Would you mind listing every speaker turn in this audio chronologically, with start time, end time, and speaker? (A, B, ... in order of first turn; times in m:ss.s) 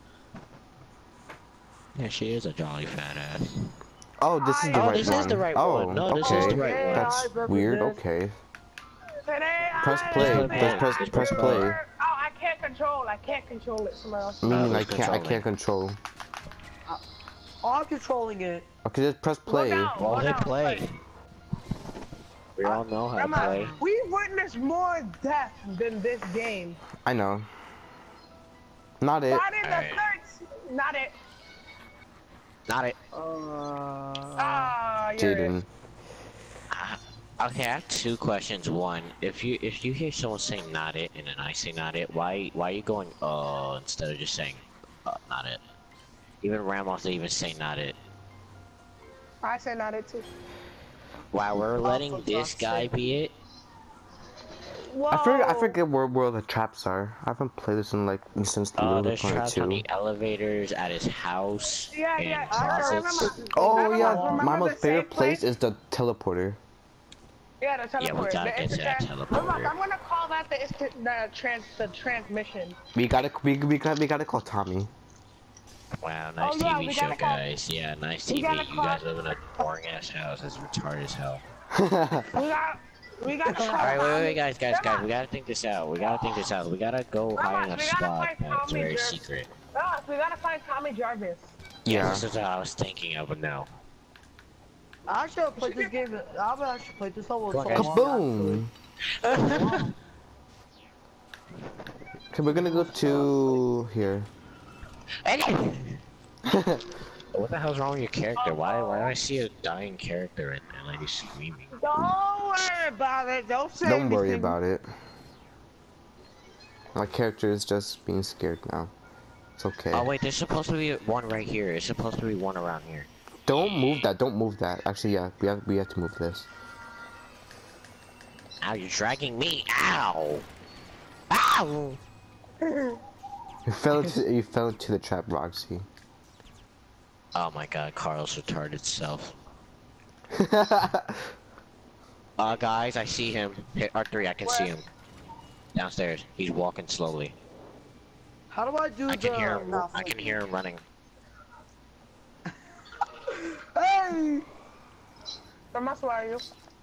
0:02.0-0:03.5 A
0:04.2-0:08.3 B
0:04.4-0:05.3 C
0:04.7-0:07.3 A
0:06.2-0:08.0 D
0:09.2-0:15.0 C
0:09.8-0:11.8 B
0:09.9-0:11.7 A
0:14.4-0:16.0 B
0:14.4-0:15.4 A
0:17.6-0:18.7 D
0:18.8-0:20.0 B
0:19.5-0:20.9 C
0:20.0-0:20.9 A
0:22.6-0:23.8 A
0:22.6-0:26.8 C
0:23.3-0:23.8 D
0:27.0-0:27.5 B
0:29.0-0:29.5 B
0:29.3-0:31.1 C
0:29.6-0:30.0 A
0:32.7-0:33.0 A
0:33.1-0:34.7 D
0:34.4-0:35.5 C
0:35.2-0:35.7 B
0:36.7-0:45.6 A
0:46.4-0:48.0 A
0:49.4-0:50.3 C
0:51.3-0:53.3 A
0:51.8-0:52.9 D
0:54.8-0:55.8 C
0:55.1-0:59.8 B
0:58.8-1:03.3 A
1:01.9-1:05.4 C
1:02.5-1:04.5 D
1:03.5-1:06.6 B
1:07.6-1:12.8 C
1:08.0-1:09.7 A
1:12.9-1:14.9 B
1:16.0-1:21.4 A
1:16.4-1:17.4 C
1:18.3-1:19.0 C
1:21.7-1:22.3 B
1:22.3-1:25.1 C
1:23.7-1:29.5 A
1:27.4-1:31.5 C
1:31.8-1:32.3 B
1:31.9-1:33.7 A
1:35.1-1:38.6 D
1:35.6-1:36.0 C
1:37.5-1:38.0 A
1:37.7-1:38.7 B
1:39.2-1:39.9 A
1:39.3-1:39.9 D
1:42.3-1:44.3 B
1:42.6-1:43.3 D
1:45.2-1:46.0 A
1:46.4-1:46.8 B
1:47.3-1:51.7 A
1:48.4-1:49.1 C
1:51.8-1:54.6 C
1:53.8-1:54.9 B
1:56.9-1:58.9 B
1:59.6-2:00.1 B
1:59.9-2:04.1 A
2:03.5-2:06.5 B
2:08.6-2:10.4 A
2:11.3-2:12.0 A
2:12.6-2:13.0 C
2:13.7-2:15.8 B
2:17.3-2:19.4 A
2:20.3-2:21.3 B
2:22.4-2:24.8 A
2:24.4-2:24.7 C
2:25.7-2:27.3 A
2:28.5-2:30.4 D
2:29.1-2:30.8 A
2:33.4-2:34.4 D
2:35.7-2:36.4 C